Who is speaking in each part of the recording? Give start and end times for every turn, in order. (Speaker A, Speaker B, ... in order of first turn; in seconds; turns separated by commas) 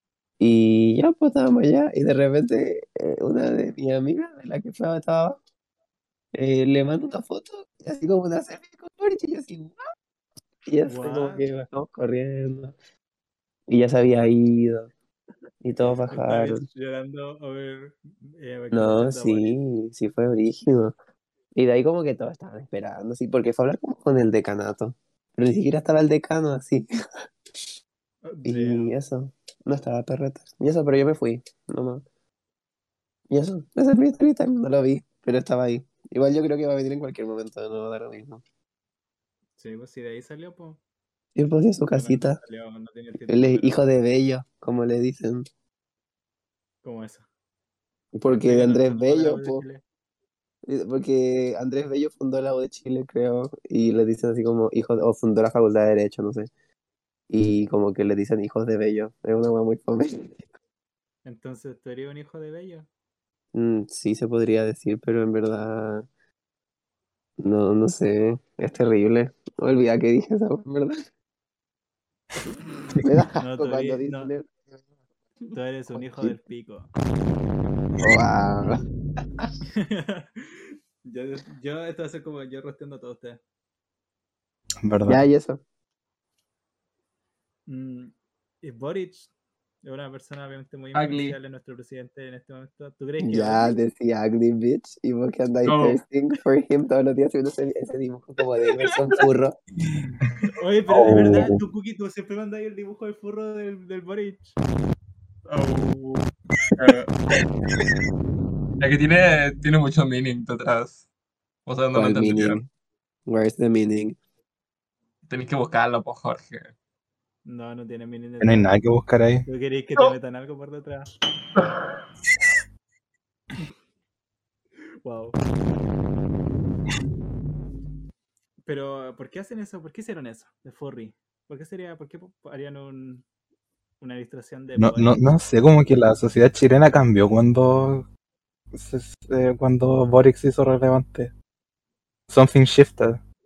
Speaker A: 0.4-5.4, Speaker A: 6.3-9.8, Speaker A: 10.7-12.7, Speaker B: 10.8-11.5, Speaker A: 13.7-14.9, Speaker A: 15.6-16.6, Speaker B: 15.8-19.6, Speaker A: 18.7-20.9, Speaker A: 21.5-26.9, Speaker B: 28.2-28.9, Speaker A: 28.4-32.0, Speaker A: 33.3-38.4, Speaker B: 39.6-40.8, Speaker A: 41.4-42.4, Speaker B: 41.9-43.8, Speaker A: 43.3-45.5, Speaker B: 46.8-47.2, Speaker A: 48.1-49.6, Speaker B: 48.3-49.8, Speaker A: 50.7-56.5, Speaker A: 57.3-60.5, Speaker B: 61.2-62.9, Speaker A: 63.5-66.0, Speaker A: 67.4-71.0, Speaker A: 73.0-74.8, Speaker B: 73.4-74.3, Speaker B: 75.5-76.9, Speaker A: 75.9-76.4, Speaker A: 78.0-78.8, Speaker B: 79.7-83.4, Speaker C: 84.8-85.2, Speaker A: 85.1-85.6, Speaker B: 87.7-89.3, Speaker B: 89.8-93.7, Speaker D: 90.9-91.3, Speaker A: 93.2-99.6, Speaker D: 95.6-96.0, Speaker B: 100.5-104.5, Speaker C: 100.9-101.6, Speaker D: 105.5-107.1, Speaker D: 108.8-111.0, Speaker D: 111.7-112.6, Speaker A: 111.9-112.7, Speaker A: 113.3-114.2, Speaker D: 115.3-116.7, Speaker B: 117.5-118.7, Speaker C: 118.4-119.4, Speaker B: 119.5-121.1, Speaker B: 125.0-125.3, Speaker B: 128.6-133.2, Speaker B: 134.0-135.2, Speaker C: 134.8-138.1, Speaker C: 138.7-141.3, Speaker C: 142.3-143.2